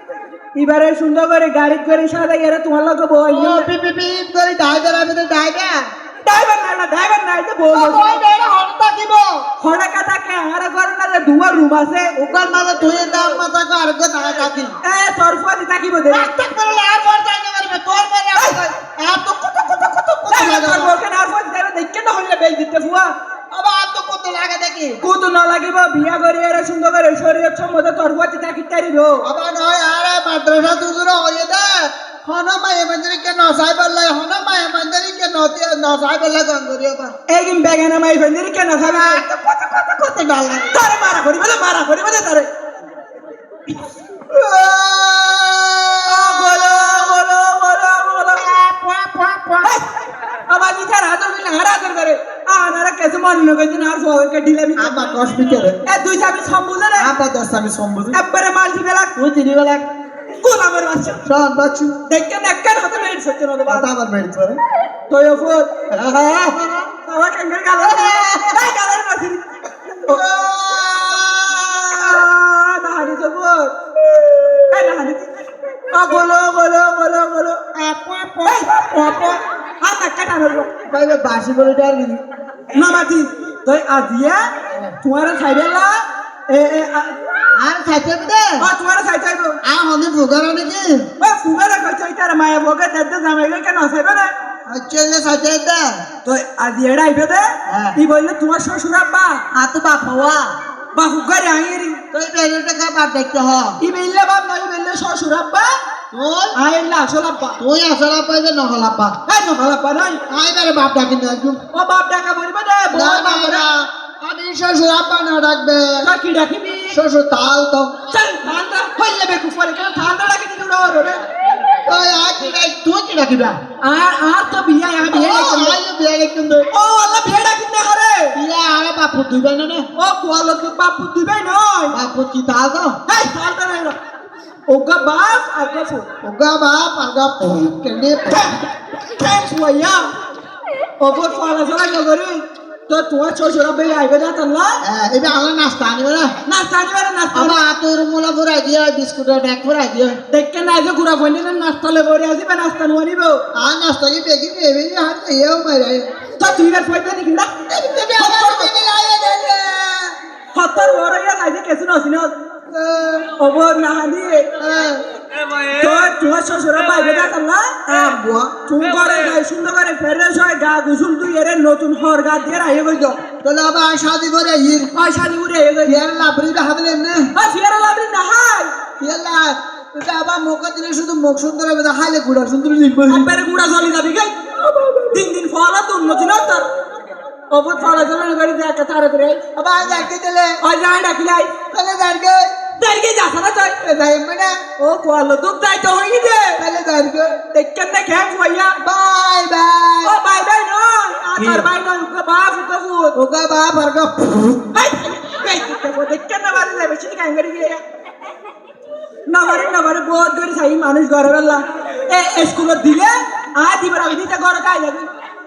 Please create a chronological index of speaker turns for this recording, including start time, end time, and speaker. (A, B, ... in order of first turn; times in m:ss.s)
0:00.5-0:03.7 A
0:03.3-0:05.9 B
0:06.2-0:08.2 A
0:07.7-0:09.5 B
0:09.6-0:12.1 A
0:12.2-0:14.8 B
0:14.8-0:16.3 A
0:16.1-0:21.0 B
0:18.4-0:18.6 A
0:20.3-0:23.1 A
0:23.5-0:25.0 B
0:25.0-0:29.3 A
0:29.2-0:37.1 B
0:37.3-0:39.2 A
0:38.8-0:40.8 B
0:40.7-0:42.5 A
0:44.3-0:47.2 B
0:46.1-0:48.6 A
0:48.4-0:49.7 B
0:49.6-0:49.9 A
0:50.5-0:55.2 A
0:54.8-0:55.8 B
0:55.8-0:57.1 A
0:57.0-0:58.2 B
0:58.1-0:59.1 A
0:59.2-0:59.8 B
1:00.4-1:01.2 A
1:01.2-1:02.0 B
1:02.1-1:03.9 A
1:03.7-1:04.6 B
1:05.1-1:05.7 A
1:05.9-1:06.9 B
1:07.0-1:09.5 A
1:07.8-1:08.6 B
1:10.0-1:12.2 B
1:11.9-1:13.7 A
1:14.0-1:14.9 B
1:14.7-1:15.4 A
1:15.9-1:17.6 A
1:17.7-1:19.4 B
1:18.4-1:20.7 A
1:20.9-1:22.2 B
1:22.7-1:24.5 A
1:24.7-1:25.0 B
1:25.0-1:27.2 A
1:27.5-1:28.7 B
1:28.6-1:29.6 A
1:29.6-1:31.1 B
1:31.2-1:34.3 A
1:34.7-1:36.0 B
1:36.2-1:39.4 A
1:37.6-1:38.0 B
1:39.5-1:40.6 B
1:40.9-1:42.0 A
1:42.1-1:43.8 B
1:43.8-1:45.7 A
1:46.1-1:46.5 B
1:46.5-1:47.6 A
1:47.6-1:49.2 B
1:49.2-1:50.2 A
1:50.3-1:51.6 B
1:51.7-1:53.6 A
1:52.9-1:56.1 B
1:56.0-1:57.0 A
1:56.9-1:58.0 B
1:58.1-2:01.2 A
2:01.8-2:03.6 B
2:03.8-2:05.8 A
2:05.1-2:06.7 B
2:06.7-2:08.4 A
2:08.3-2:09.9 B
2:10.0-2:11.9 A
2:11.9-2:13.0 B
2:13.1-2:14.0 A
2:14.7-2:16.1 A
2:16.2-2:18.6 B
2:19.1-2:20.1 A
2:21.0-2:24.8 A
2:24.8-2:26.3 B
2:26.4-2:27.6 A
2:27.3-2:30.2 B
2:30.3-2:33.4 A
2:33.5-2:36.1 B
2:36.4-2:37.5 A
2:37.7-2:40.2 B
2:38.2-2:38.7 A
2:40.5-2:42.3 A
2:42.7-2:43.3 B
2:43.4-2:44.5 A
2:44.6-2:45.0 B
2:45.6-2:48.0 A
2:47.9-2:48.5 B
2:48.6-2:53.2 A
2:53.4-2:54.9 B
2:54.9-2:56.0 A
2:55.8-2:57.3 B
2:57.3-2:58.7 A
2:59.0-3:03.3 B
3:03.1-3:06.7 A
3:07.5-3:09.4 A
3:09.5-3:10.6 B
3:10.6-3:11.5 A
3:11.7-3:12.5 B
3:12.8-3:13.8 A
3:13.8-3:14.6 B
3:14.8-3:16.6 A
3:16.6-3:17.4 B
3:17.5-3:18.8 A
3:18.8-3:20.2 B
3:20.0-3:23.2 A
3:21.4-3:21.7 B
3:23.1-3:24.6 B
3:24.7-3:27.8 A
3:29.3-3:35.1 A